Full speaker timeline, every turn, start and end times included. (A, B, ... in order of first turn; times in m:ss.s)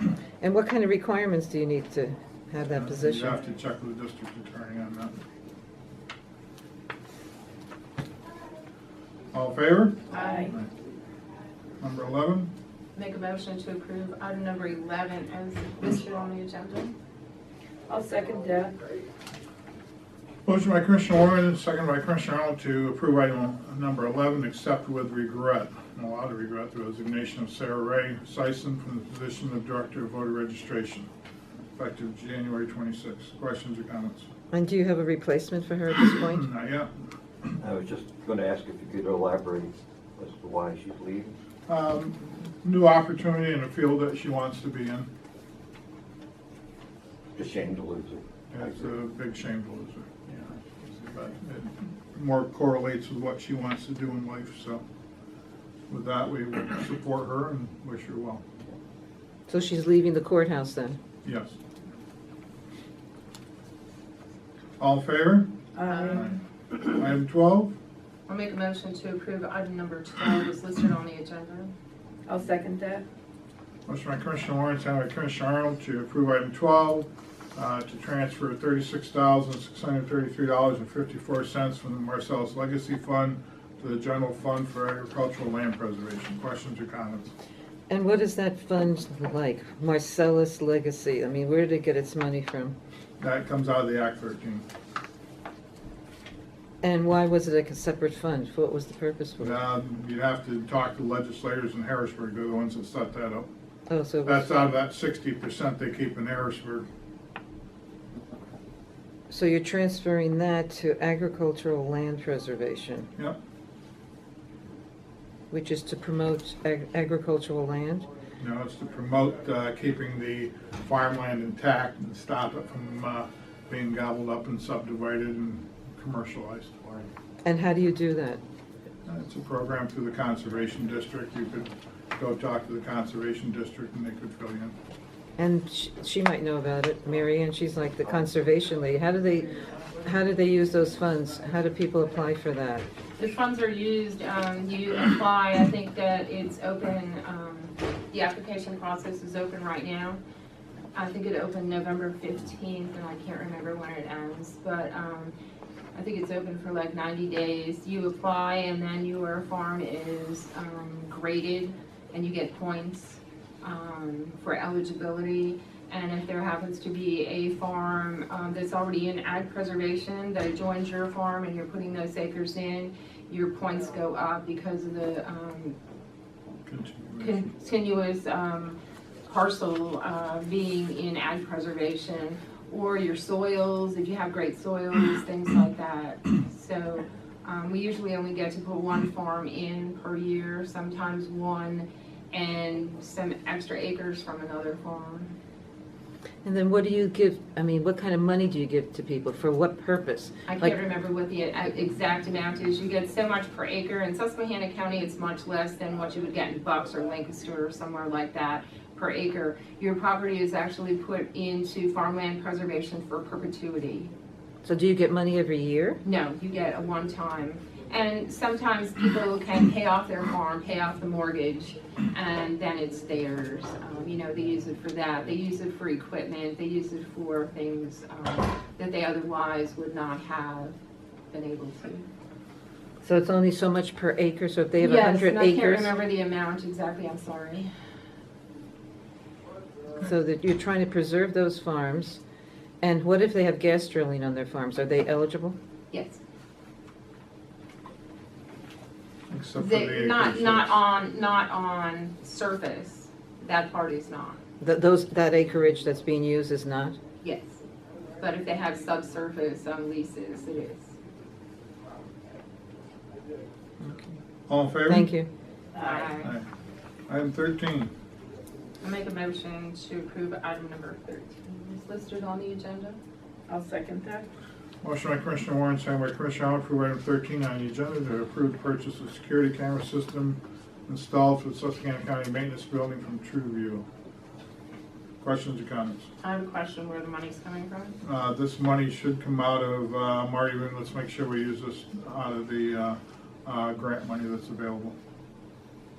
0:00.4-0:03.4 A
0:02.8-0:05.2 B
0:09.3-0:10.7 B
0:10.1-0:10.5 C
0:10.1-0:10.5 D
0:11.8-0:12.5 B
0:13.0-0:17.0 C
0:17.9-0:18.8 D
0:20.4-0:31.1 B
0:31.8-0:34.3 B
0:34.5-0:36.5 A
0:36.2-0:36.9 B
0:37.6-0:41.3 E
0:41.7-0:45.1 B
0:47.4-0:48.7 E
0:48.5-0:54.8 B
0:55.9-0:58.4 B
0:59.5-1:01.0 A
1:01.2-1:01.6 B
1:04.8-1:05.5 B
1:05.8-1:06.2 D
1:05.9-1:06.3 C
1:06.1-1:07.7 B
1:08.3-1:11.7 C
1:12.3-1:13.0 D
1:13.9-1:27.3 B
1:27.9-1:32.8 A
1:33.2-1:34.6 B
1:36.8-1:39.6 A
1:39.4-1:43.5 B
1:43.9-1:44.6 A
1:44.2-1:46.9 B
1:49.3-1:53.1 A
1:55.5-1:58.1 A
1:58.4-2:07.0 B
2:07.4-2:08.4 A
2:09.1-2:14.8 B
2:15.4-2:22.9 A
2:23.2-2:30.2 C
2:30.9-2:35.3 C
2:35.9-2:55.8 C
2:56.7-2:57.5 B
2:57.2-3:15.3 C
3:16.4-3:20.8 A
3:20.5-3:34.1 C
3:34.6-3:36.0 A
3:36.0-3:50.8 C
3:51.3-3:52.1 C
3:53.0-3:55.9 A
3:54.8-3:57.7 C
4:00.0-4:02.2 A
4:02.8-4:05.6 A
4:05.9-4:06.2 C
4:09.3-4:10.7 B
4:09.6-4:14.4 C
4:14.6-4:17.0 A
4:17.2-4:17.6 C
4:18.2-4:20.9 C
4:23.8-4:24.2 A
4:24.5-4:25.1 B
4:24.9-4:25.3 A
4:25.8-4:26.3 C
4:25.8-4:26.0 D
4:26.2-4:26.5 B
4:27.1-4:27.9 B
4:28.8-4:33.0 C
4:33.5-4:34.3 D
4:34.8-4:43.8 B
4:45.2-4:46.1 B
4:46.2-4:48.0 C
4:48.0-4:55.0 B